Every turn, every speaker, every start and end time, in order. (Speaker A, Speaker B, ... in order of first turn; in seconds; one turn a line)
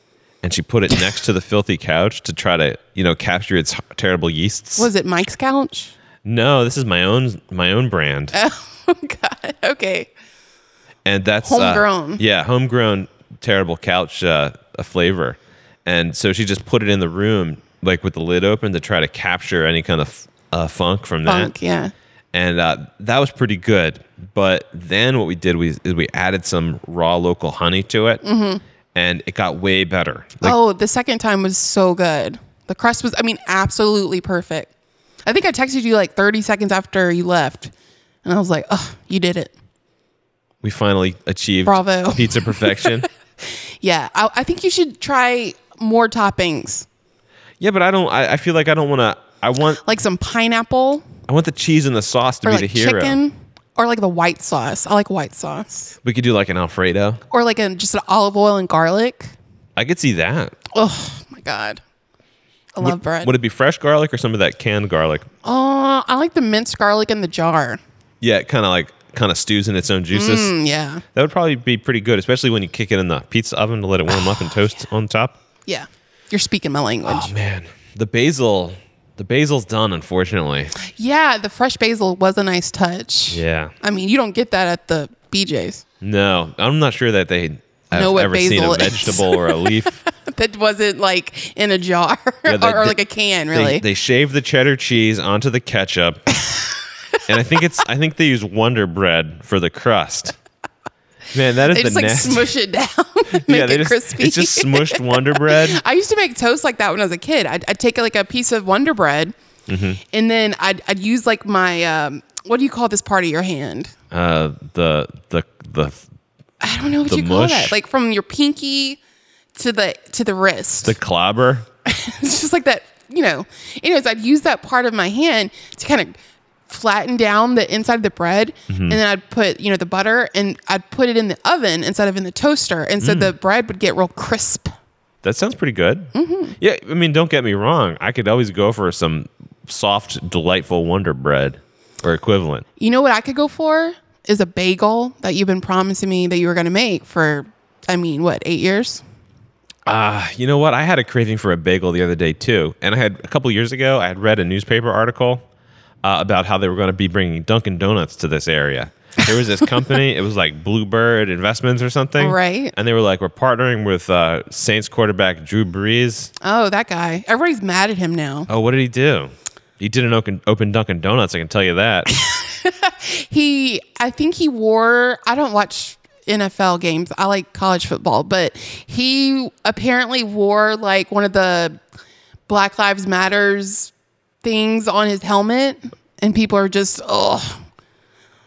Speaker A: 0.4-4.9
Speaker B: 4.8-5.9
Speaker A: 6.2-8.3
Speaker B: 8.3-10.1
Speaker A: 11.0-21.5
Speaker B: 11.4-12.2
Speaker B: 21.2-21.9
Speaker A: 22.3-28.2
Speaker B: 28.2-28.6
Speaker A: 28.9-30.6
Speaker B: 30.4-34.7
Speaker B: 35.2-37.7
Speaker B: 38.2-39.5
Speaker A: 40.6-43.1
Speaker B: 41.6-46.9
Speaker A: 47.6-49.8
Speaker B: 49.8-51.0
Speaker A: 51.3-53.2
Speaker B: 52.4-55.9
Speaker A: 56.0-57.2
Speaker B: 57.3-59.3
Speaker A: 59.8-60.5
Speaker B: 60.7-61.8
Speaker B: 62.7-63.3
Speaker A: 62.8-65.2
Speaker B: 65.4-67.8
Speaker A: 68.2-70.5
Speaker B: 70.1-71.0
Speaker A: 71.1-75.4
Speaker B: 75.7-77.3
Speaker A: 77.0-80.7
Speaker B: 80.8-85.8
Speaker A: 83.3-83.7
Speaker A: 86.0-90.0
Speaker B: 87.9-93.8
Speaker A: 92.5-93.0
Speaker A: 93.5-96.2
Speaker A: 97.3-100.3
Speaker A: 101.3-102.5
Speaker B: 101.7-109.3
Speaker A: 103.3-105.8
Speaker A: 109.7-110.0
Speaker B: 110.1-113.9
Speaker A: 114.1-116.0
Speaker B: 116.6-119.0
Speaker A: 117.0-117.7
Speaker B: 119.5-121.0
Speaker A: 120.8-121.7
Speaker B: 121.8-126.1
Speaker B: 126.7-134.7
Speaker A: 128.7-129.0
Speaker A: 133.0-133.3
Speaker A: 135.2-142.6
Speaker B: 136.1-136.5
Speaker B: 142.8-149.0
Speaker A: 149.8-155.4
Speaker A: 156.0-166.3
Speaker B: 162.2-162.7
Speaker B: 166.4-168.5
Speaker A: 168.5-172.1
Speaker B: 172.1-181.8
Speaker B: 182.5-183.9
Speaker B: 184.4-187.6